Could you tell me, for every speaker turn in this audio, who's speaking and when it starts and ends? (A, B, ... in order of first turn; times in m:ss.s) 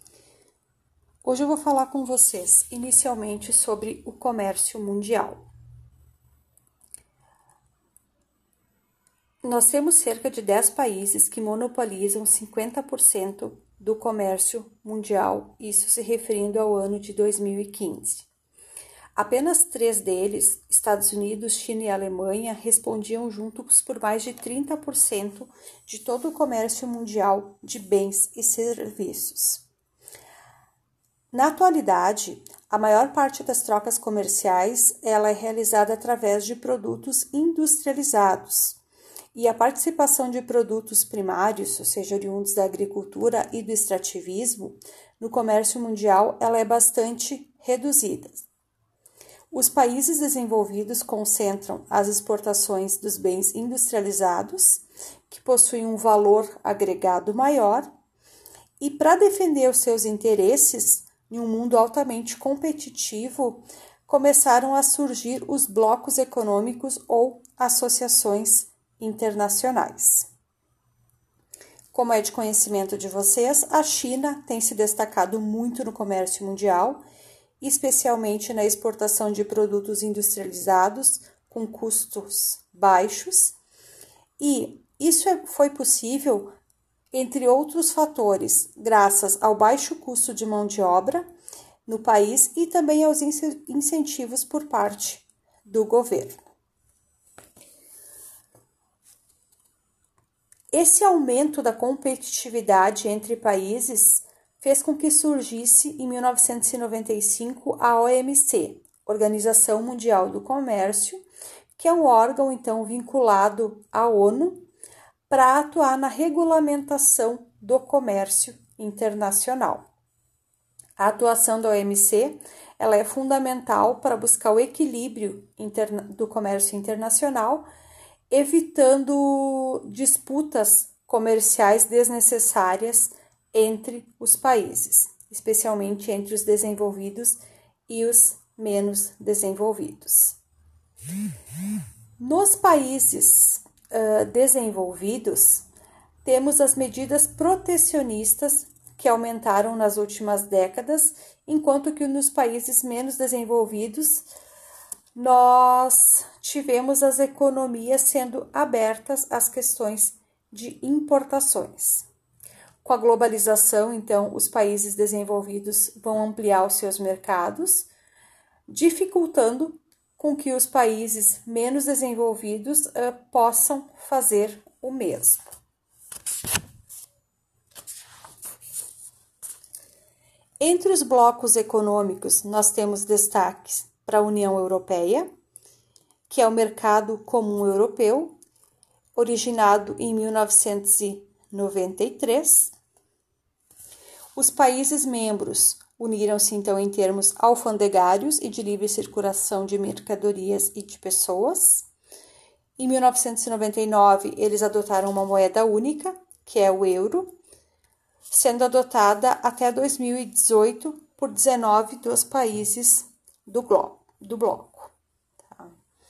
0:01.2-0:05.4 A
0:09.4-0:18.3 A
0:19.2-0:29.6 A
0:31.3-0:38.8 A
0:39.3-0:48.5 A
0:49.5-0:57.9 A
0:58.8-1:10.3 A
1:11.9-1:17.0 A
1:17.6-1:23.6 A
1:24.4-1:26.6 A
1:27.1-1:31.3 A
1:31.9-1:36.4 A
1:40.7-1:51.2 A
1:51.8-1:54.6 A
1:55.3-1:59.9 A
2:01.0-2:07.6 A
2:08.3-2:20.4 A
2:22.2-2:25.6 A
2:26.2-2:34.3 A
2:35.2-2:42.1 A
2:42.8-2:47.9 A
2:48.7-2:55.5 A
3:00.6-3:05.3 A
3:06.3-3:08.4 A
3:09.2-3:12.7 A
3:14.4-3:21.9 A
3:22.8-3:27.3 A
3:28.3-3:34.9 A